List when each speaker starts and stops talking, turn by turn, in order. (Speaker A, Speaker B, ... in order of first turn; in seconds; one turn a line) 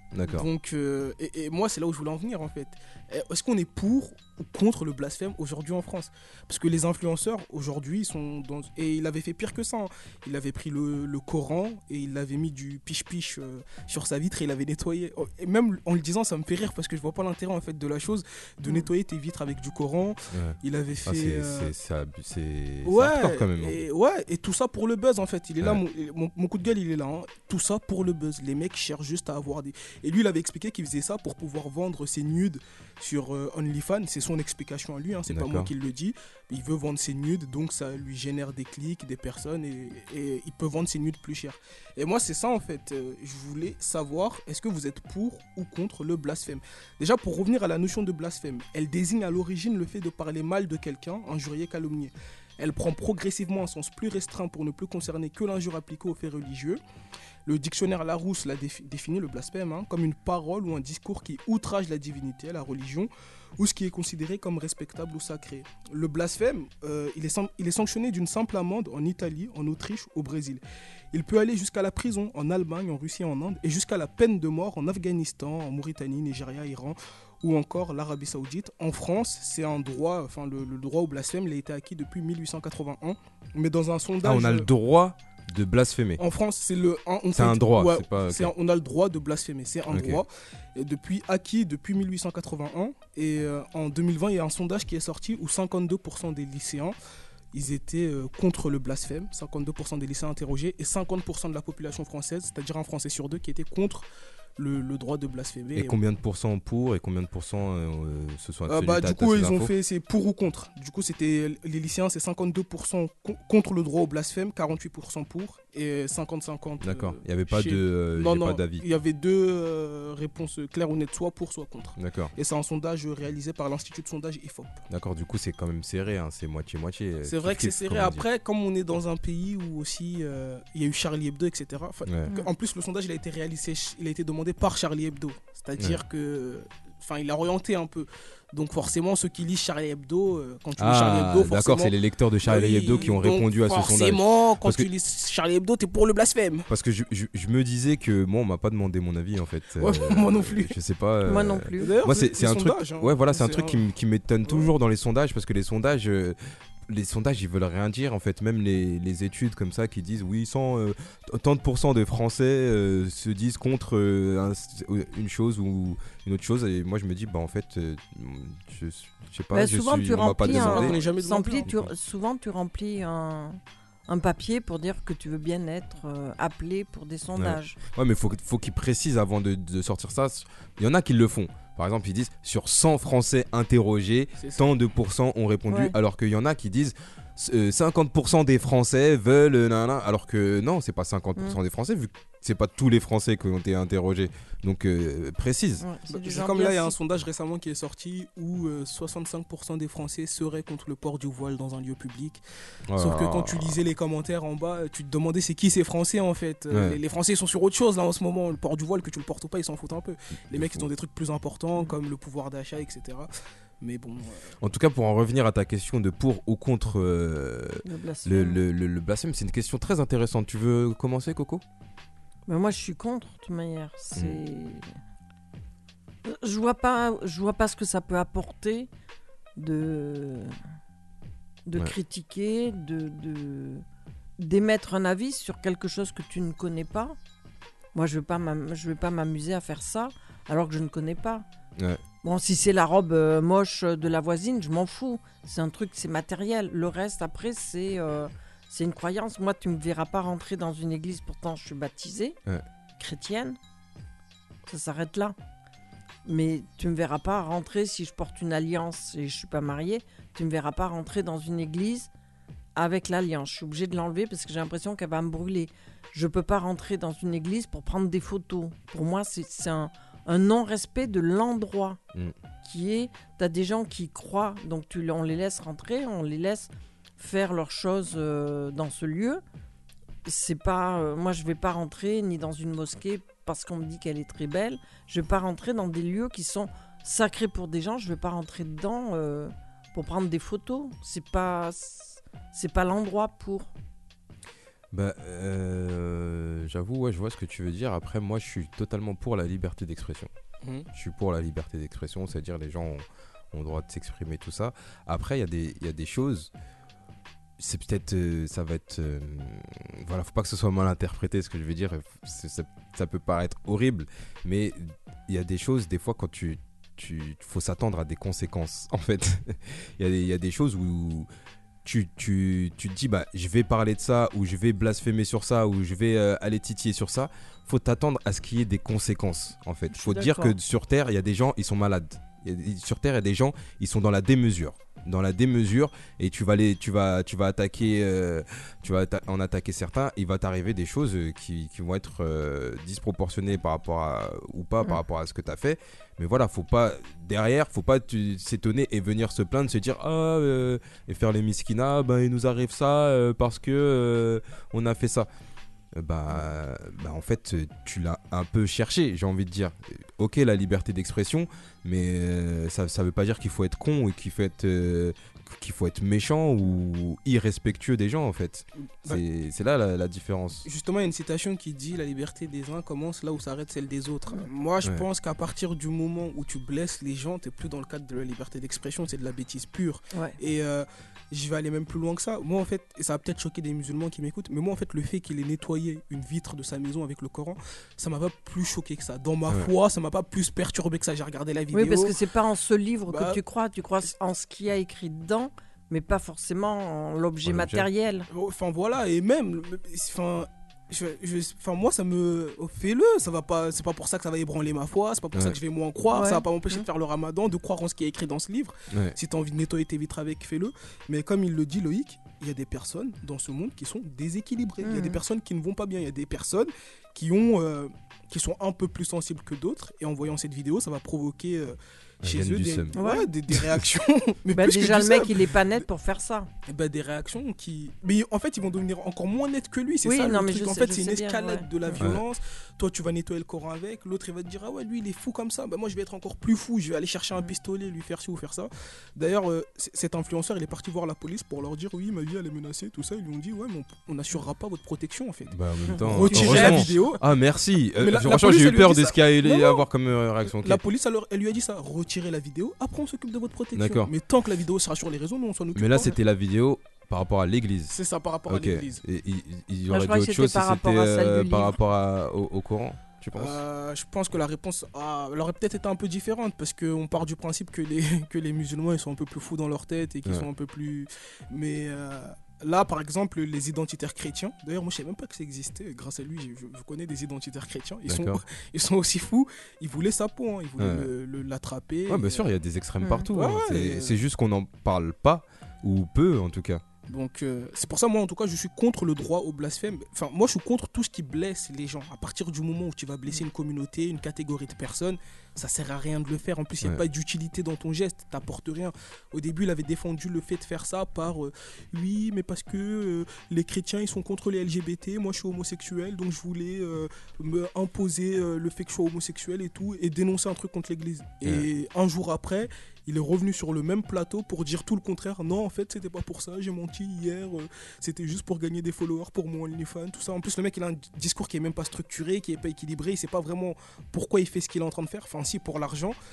Speaker A: 0.1-0.5
Speaker B: 0.3-21.7
Speaker A: 20.3-23.8
Speaker B: 22.8-56.8
Speaker A: 35.3-35.7
Speaker B: 57.5-70.6
Speaker B: 71.1-84.7
Speaker A: 84.2-86.2
Speaker B: 86.2-97.0
Speaker A: 87.3-88.5
Speaker A: 89.9-90.2
Speaker B: 97.5-104.0
Speaker B: 104.6-106.0
Speaker A: 105.7-109.7
Speaker B: 108.7-124.8
Speaker A: 116.8-118.8
Speaker A: 122.0-122.3
Speaker A: 124.9-128.2
Speaker B: 127.2-141.9
Speaker A: 132.1-132.3
Speaker A: 140.8-144.9
Speaker B: 142.4-146.7
Speaker A: 146.7-171.0
Speaker B: 149.8-150.7
Speaker C: 151.2-151.9
Speaker B: 151.8-153.8
Speaker B: 154.4-154.7
Speaker C: 169.5-177.8
Speaker B: 170.4-171.7
Speaker A: 171.7-171.9
Speaker A: 177.3-195.8
Speaker B: 184.4-184.6
Speaker C: 185.7-185.9
Speaker C: 195.8-196.9
Speaker B: 196.1-202.4
Speaker A: 202.9-203.8
Speaker B: 203.0-213.3
Speaker A: 206.7-207.0
Speaker A: 210.5-210.9
Speaker B: 213.8-214.5
Speaker A: 214.6-221.6
Speaker C: 217.8-218.6
Speaker C: 222.5-224.8
Speaker C: 226.2-228.9
Speaker C: 229.6-230.5
Speaker C: 231.7-233.8
Speaker C: 234.4-237.2
Speaker C: 237.9-241.4
Speaker A: 241.8-242.0
Speaker C: 242.2-252.4
Speaker C: 253.0-253.6
Speaker C: 254.7-255.3
Speaker C: 256.2-262.1
Speaker C: 262.8-272.0
Speaker C: 272.6-279.4
Speaker C: 280.2-293.7
Speaker A: 294.9-300.3
Speaker B: 300.6-300.9
Speaker A: 300.9-306.5
Speaker A: 307.6-321.3
Speaker A: 321.8-355.3
Speaker C: 329.9-330.6
Speaker A: 355.9-370.7
Speaker B: 370.6-392.1
Speaker C: 380.1-380.4
Speaker C: 391.7-398.3
Speaker B: 393.1-393.4
Speaker A: 397.4-397.9
Speaker B: 398.3-425.5
Speaker C: 406.1-406.8
Speaker A: 408.9-409.1
Speaker C: 414.8-415.2
Speaker A: 422.2-422.9
Speaker C: 422.9-423.3
Speaker A: 423.5-423.8
Speaker C: 424.5-426.5
Speaker B: 426.7-447.2
Speaker C: 430.0-432.1
Speaker A: 445.5-450.8
Speaker C: 446.0-446.6
Speaker B: 448.0-449.8
Speaker B: 450.5-456.1
Speaker A: 453.7-454.1
Speaker A: 455.7-457.9
Speaker B: 457.9-459.0
Speaker A: 458.5-463.6
Speaker C: 459.9-461.8
Speaker B: 463.3-482.5
Speaker A: 478.1-478.4
Speaker A: 480.8-481.1
Speaker A: 482.1-486.8
Speaker C: 483.0-483.3
Speaker B: 483.3-484.2
Speaker B: 487.1-526.1